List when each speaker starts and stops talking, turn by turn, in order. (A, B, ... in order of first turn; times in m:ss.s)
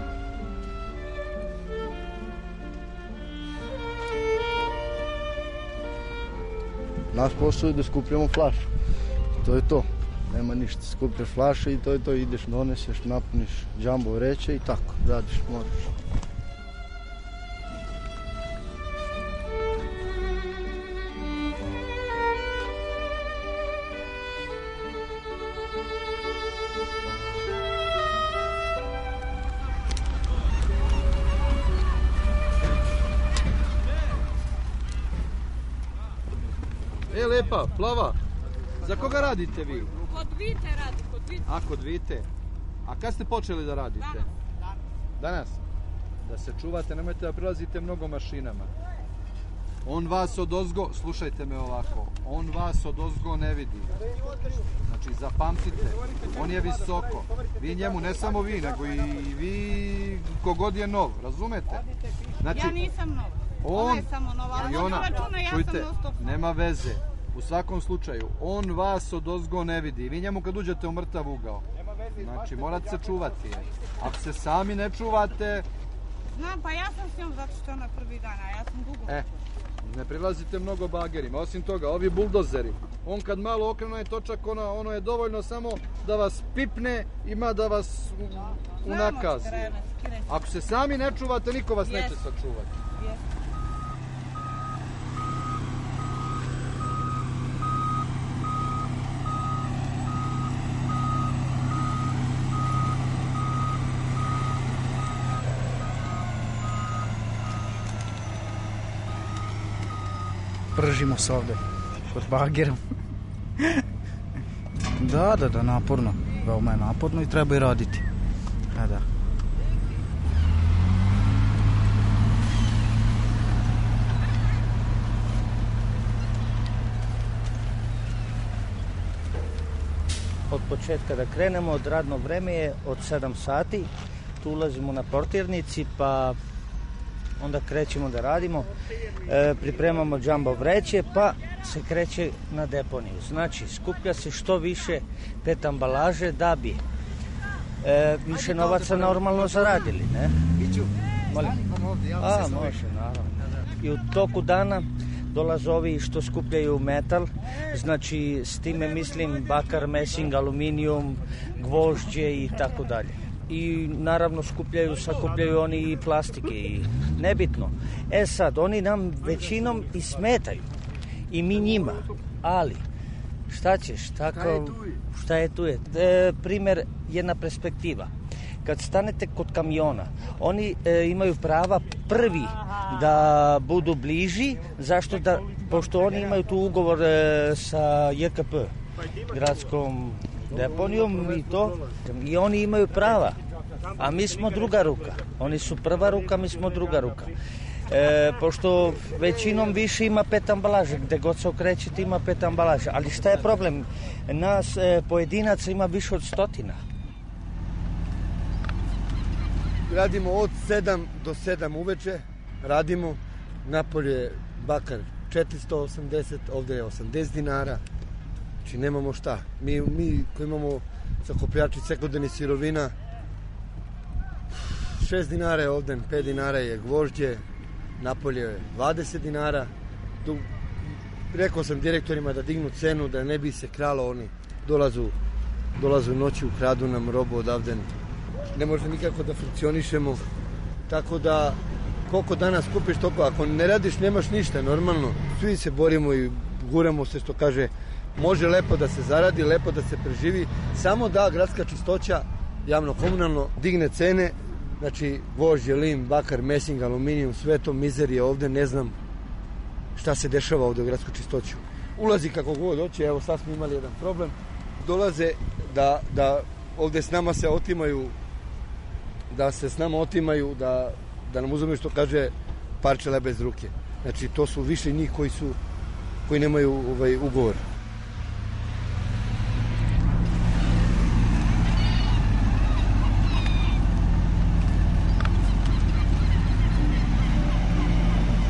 0:07.1-0:08.7 A
0:09.4-0:15.9 A
0:37.1-0:38.2 B
0:38.8-0:40.0 B
0:41.5-0:42.3 B
0:42.9-0:44.3 B
0:45.2-0:45.6 B
0:46.2-0:48.7 B
0:49.8-0:53.9 B
0:54.9-1:01.8 B
1:02.4-1:02.8 B
1:02.5-1:06.5 C
1:03.6-1:11.6 B
1:12.2-1:15.7 B
1:16.3-1:19.2 C
1:19.8-1:29.8 B
1:28.8-1:30.3 C
1:30.3-1:32.7 B
1:31.8-1:32.2 C
1:50.8-1:52.8 D
1:55.0-1:58.0 D
1:58.7-1:59.0 D
2:10.5-2:16.4 E
2:17.4-2:18.7 E
2:19.3-2:26.8 E
2:27.8-2:30.4 E
2:31.3-2:50.6 E
2:51.3-2:52.8 E
2:53.5-2:58.1 E
2:58.6-3:08.7 E
3:09.3-3:13.4 E
3:14.0-3:17.3 E
3:17.9-3:26.8 E
3:29.9-3:37.8 F
3:38.6-3:42.9 F
3:44.9-3:47.4 F
3:48.0-3:49.7 F
3:50.2-3:55.2 F
3:55.8-3:57.9 F
3:58.5-4:00.2 F
4:00.9-4:19.0 F
4:20.0-4:28.2 F
4:29.3-4:35.6 F
4:36.3-4:37.6 F